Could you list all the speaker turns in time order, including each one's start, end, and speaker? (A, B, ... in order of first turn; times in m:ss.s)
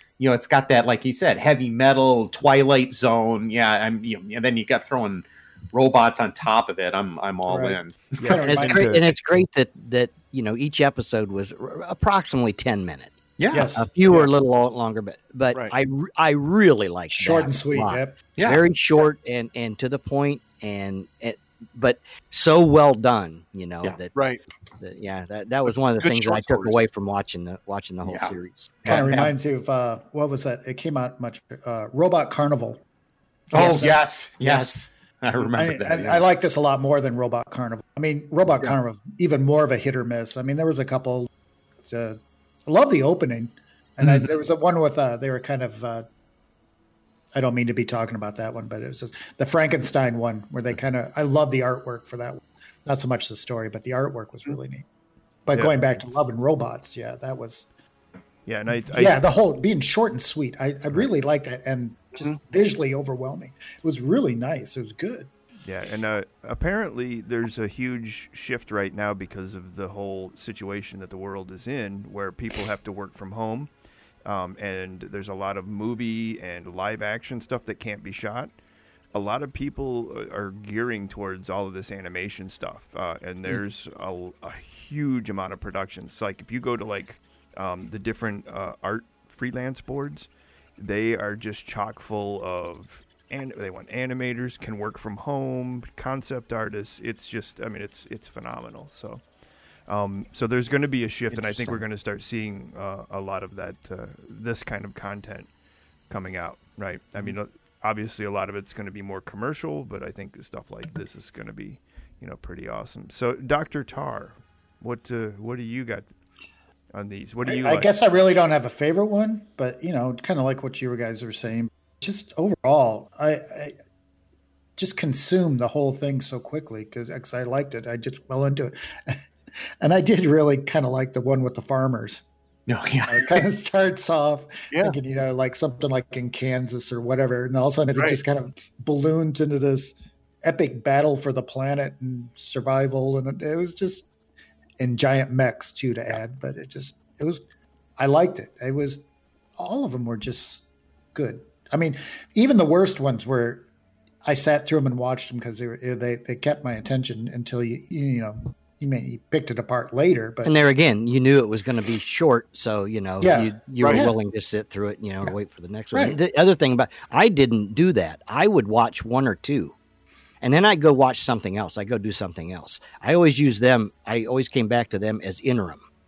0:00.2-0:09.0 A
0:07.5-0:09.0 B
0:08.2-0:08.8 C
0:08.4-0:24.2 D
0:13.4-0:13.8 A
0:13.5-0:13.9 B
0:17.1-0:18.2 B
0:18.4-0:18.6 A
0:24.2-0:24.4 E
0:24.8-0:29.0 D
0:26.0-0:26.9 E
0:28.0-0:28.3 A
0:28.8-0:29.4 A
0:28.9-0:32.8 B
0:33.5-0:34.7 B
0:33.5-0:36.2 A
0:35.4-0:41.3 B
0:41.9-0:46.1 B
0:44.0-0:44.3 A
0:47.4-0:54.8 B
0:55.5-0:57.7 B
0:55.5-0:56.2 C
0:58.5-0:59.2 C
0:58.9-1:05.3 B
1:02.2-1:02.4 E
1:05.6-1:13.7 C
1:14.2-1:18.5 C
1:19.1-1:39.2 C
1:39.9-1:45.5 C
1:41.3-1:41.8 A
1:46.1-1:56.1 C
1:56.9-1:57.9 C
1:57.5-2:03.8 B
2:04.8-2:09.2 B
2:09.8-2:12.2 B
2:12.7-2:13.4 A
2:13.1-2:24.0 B
2:14.7-2:15.0 E
2:24.8-2:27.4 B
2:28.0-2:29.0 B
2:29.6-2:30.6 B
2:31.2-2:33.7 B
2:34.2-2:40.5 B
2:40.4-2:49.8 D
2:43.2-2:44.1 B
2:43.8-2:44.1 E
2:45.9-2:46.2 B
2:50.4-2:55.8 D